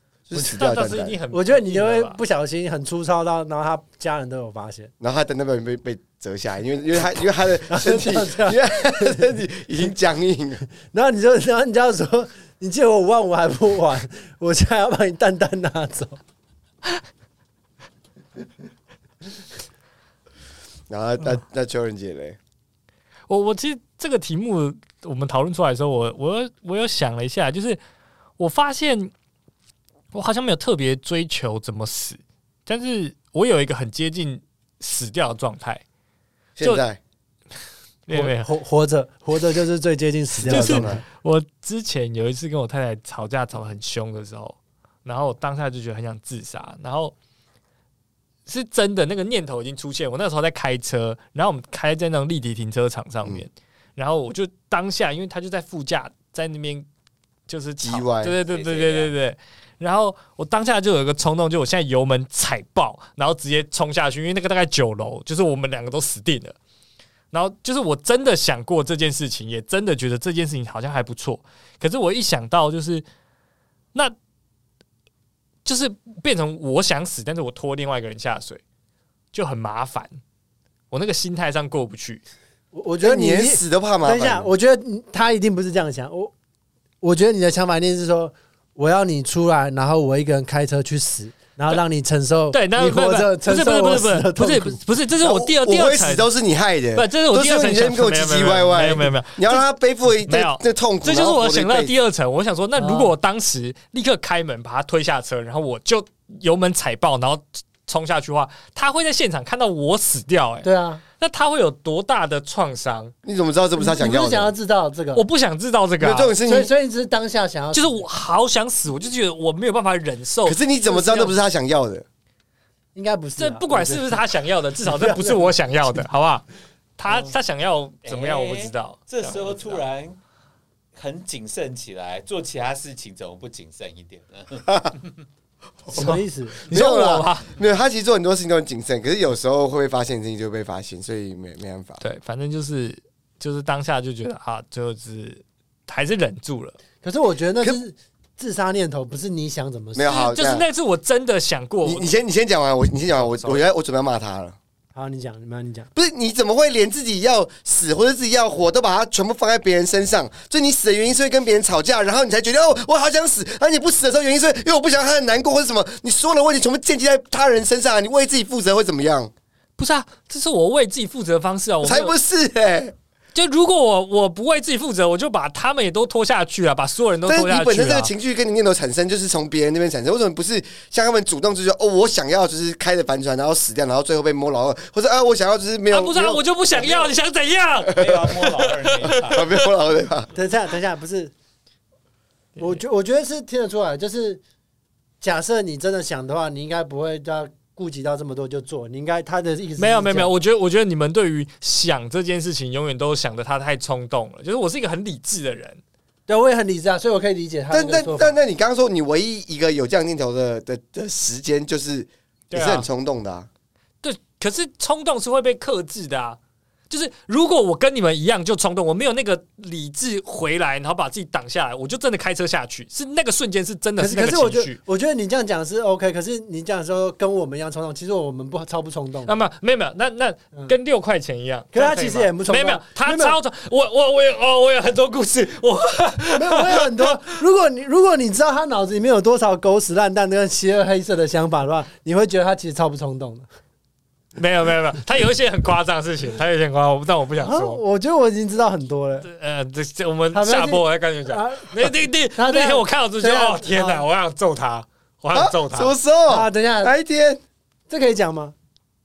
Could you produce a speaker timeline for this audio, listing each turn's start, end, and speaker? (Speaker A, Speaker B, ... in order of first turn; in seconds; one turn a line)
Speaker A: 0.3-1.2
Speaker B: 0.3-0.6
Speaker C: 0.3-2.2
Speaker B: 1.3-4.9
Speaker A: 5.0-10.7
Speaker B: 7.7-9.3
Speaker B: 10.8-16.2
Speaker A: 20.9-22.4
Speaker C: 23.3-27.8
Speaker C: 28.4-29.1
Speaker C: 30.1-35.8
Speaker A: 36.6-37.0
Speaker C: 38.1-38.5
Speaker B: 38.1-41.0
Speaker A: 40.4-41.0
Speaker C: 40.5-47.1
Speaker C: 48.5-56.9
Speaker C: 57.5-66.5
Speaker A: 57.8-58.4
Speaker D: 58.4-59.1
Speaker C: 67.3-73.0
Speaker C: 75.6-78.6
Speaker C: 79.3-80.2
Speaker C: 80.9-82.2
Speaker B: 82.7-86.3
Speaker A: 83.0-84.5
Speaker B: 87.0-94.8
Speaker C: 92.5-96.2
Speaker A: 95.2-101.9
Speaker C: 96.9-99.6
Speaker C: 100.3-113.1
Speaker B: 102.8-103.1
Speaker B: 110.6-111.0
Speaker A: 113.2-114.5
Speaker B: 113.8-115.2
Speaker C: 115.1-116.3
Speaker A: 116.0-116.7
Speaker B: 116.4-118.0
Speaker C: 117.7-120.6
Speaker A: 120.4-122.0
Speaker B: 120.9-121.3
Speaker B: 122.9-124.2
Speaker C: 123.4-126.5
Speaker B: 124.8-125.5
Speaker C: 127.0-129.8
Speaker B: 127.1-127.3
Speaker D: 128.0-130.2
Speaker D: 130.9-135.1
Speaker A: 135.8-142.0
Speaker B: 135.9-136.6
Speaker C: 135.9-137.5
Speaker C: 142.0-146.8
Speaker B: 147.0-150.2
Speaker A: 149.9-150.7
Speaker C: 150.1-152.1
Speaker A: 151.8-154.6
Speaker C: 153.2-153.6
Speaker B: 154.9-155.9
Speaker A: 155.9-169.3
Speaker C: 169.8-172.1
Speaker A: 171.8-172.9
Speaker C: 173.3-178.1
Speaker A: 177.2-186.4
Speaker C: 185.9-189.2
Speaker D: 186.7-187.1
Speaker D: 187.9-189.6
Speaker A: 188.0-188.2
Speaker A: 189.1-190.3
Speaker B: 190.3-191.3
Speaker B: 192.6-194.4
Speaker B: 195.2-200.3
Speaker C: 199.8-205.8
Speaker B: 206.3-208.4
Speaker A: 207.7-213.5
Speaker C: 212.5-212.8
Speaker C: 214.0-216.4
Speaker C: 216.9-224.8
Speaker B: 224.0-229.3
Speaker C: 229.2-237.0
Speaker B: 231.7-233.4
Speaker B: 236.3-243.4
Speaker C: 244.4-247.8
Speaker B: 247.4-249.3
Speaker C: 249.2-255.9
Speaker B: 250.3-254.0
Speaker A: 255.3-257.4
Speaker B: 256.3-256.9
Speaker B: 257.9-258.5